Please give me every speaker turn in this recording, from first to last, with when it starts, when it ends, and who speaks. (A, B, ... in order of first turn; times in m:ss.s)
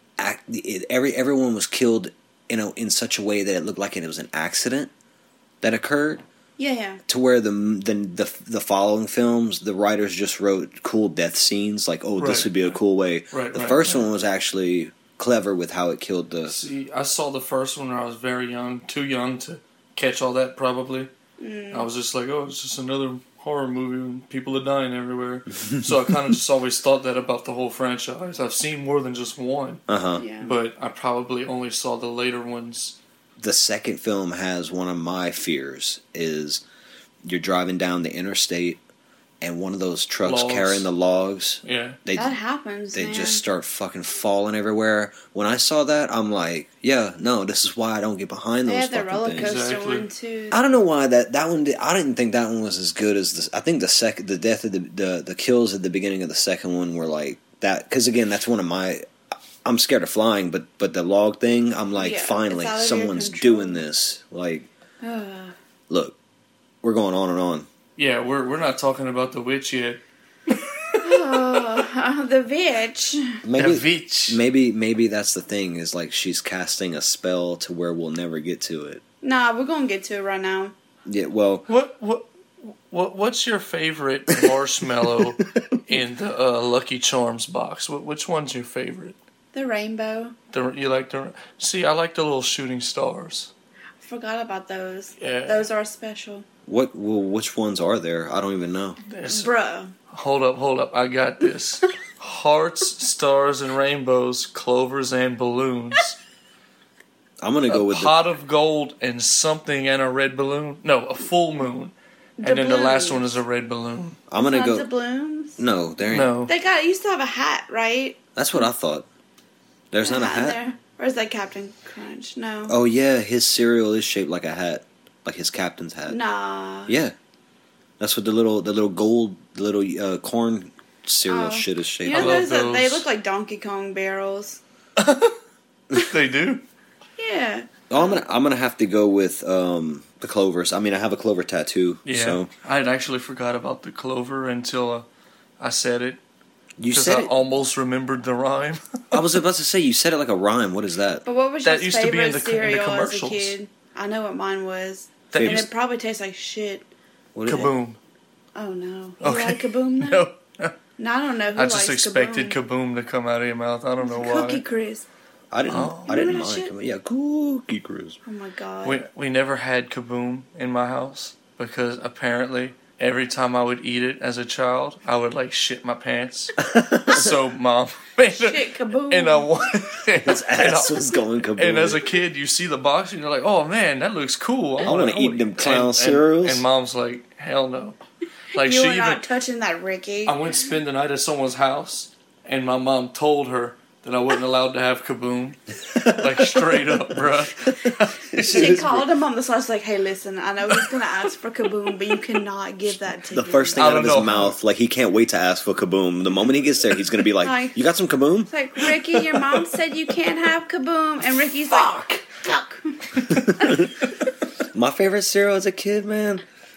0:00.2-0:04.9 A
0:05.6-0:06.2 A
0:06.6-0:07.0 B
0:07.1-0:16.5 A
0:12.2-0:12.6 C
0:13.3-0:14.0 C
0:16.5-0:21.1 C
0:21.4-0:21.9 B
0:21.7-0:29.8 C
0:29.9-0:30.2 A
0:30.2-0:30.5 B
0:30.4-0:33.0 C
0:33.4-0:36.6 A
0:37.2-0:38.8 A
0:39.4-0:42.3 A
0:40.2-0:40.9 C
0:41.6-0:42.0 C
0:42.1-0:43.4 B
0:42.9-0:49.5 A
0:48.6-0:50.6 B
0:49.4-0:50.0 C
0:50.5-0:59.0 A
0:59.6-1:04.7 A
1:02.0-1:03.8 B
1:05.0-1:05.5 B
1:05.9-1:06.2 A
1:06.8-1:07.7 A
1:08.0-1:11.7 C
1:11.0-1:13.4 B
1:13.4-1:19.0 A
1:13.6-1:14.4 C
1:19.2-1:20.7 B
1:21.0-1:21.6 A
1:21.7-1:29.2 C
1:25.1-1:25.8 A
1:29.5-1:30.3 B
1:30.5-1:33.5 C
1:34.0-1:36.4 B
1:35.2-1:35.7 C
1:36.6-1:39.0 A
1:39.1-1:39.5 C
1:39.3-1:39.9 B
1:40.1-1:46.2 C
1:47.4-1:48.2 A
1:47.7-1:54.2 C
1:52.4-1:53.4 B
1:54.3-1:54.9 A
1:54.4-1:55.6 B
1:55.6-1:56.4 A
1:56.1-1:56.5 C
1:56.4-1:58.2 B
1:58.4-1:59.1 A
1:59.9-2:00.6 A
2:00.0-2:02.7 B
2:02.7-2:06.2 A
2:06.1-2:07.0 B
2:06.9-2:07.1 A
2:08.0-2:12.5 A
2:11.3-2:14.6 B
2:12.1-2:13.1 C
2:15.0-2:15.4 C
2:15.9-2:16.6 C
2:17.2-2:18.2 B
2:17.9-2:22.5 A
2:22.0-2:25.0 C
2:25.6-2:26.2 C
2:26.8-2:27.3 A
2:26.9-2:29.3 C
2:29.1-2:31.2 A
2:31.2-2:36.9 B
2:31.6-2:33.6 C
2:35.3-2:35.7 C
2:35.3-2:35.6 A
2:37.3-2:37.7 A
2:37.4-2:38.0 C
2:38.5-2:40.2 B
2:39.2-2:40.7 C
2:41.0-2:42.6 B
2:41.5-2:44.6 C
2:44.0-2:45.0 B
2:45.5-2:48.2 A
2:45.7-2:46.1 C
2:46.0-2:46.7 B
2:48.2-2:49.0 B
2:48.8-3:08.0 C
2:56.6-2:57.4 A
2:58.3-2:59.5 B
3:00.2-3:02.0 A
3:04.8-3:06.6 A
3:08.5-3:09.2 C
3:08.6-3:10.5 B
3:10.2-3:18.8 C
3:15.9-3:19.1 A
3:18.4-3:23.9 B
3:23.3-3:29.6 A
3:23.8-3:24.6 C
3:27.4-3:27.8 B
3:28.5-3:33.9 B
3:31.7-3:32.4 A
3:33.2-3:34.1 A
3:34.7-3:36.4 A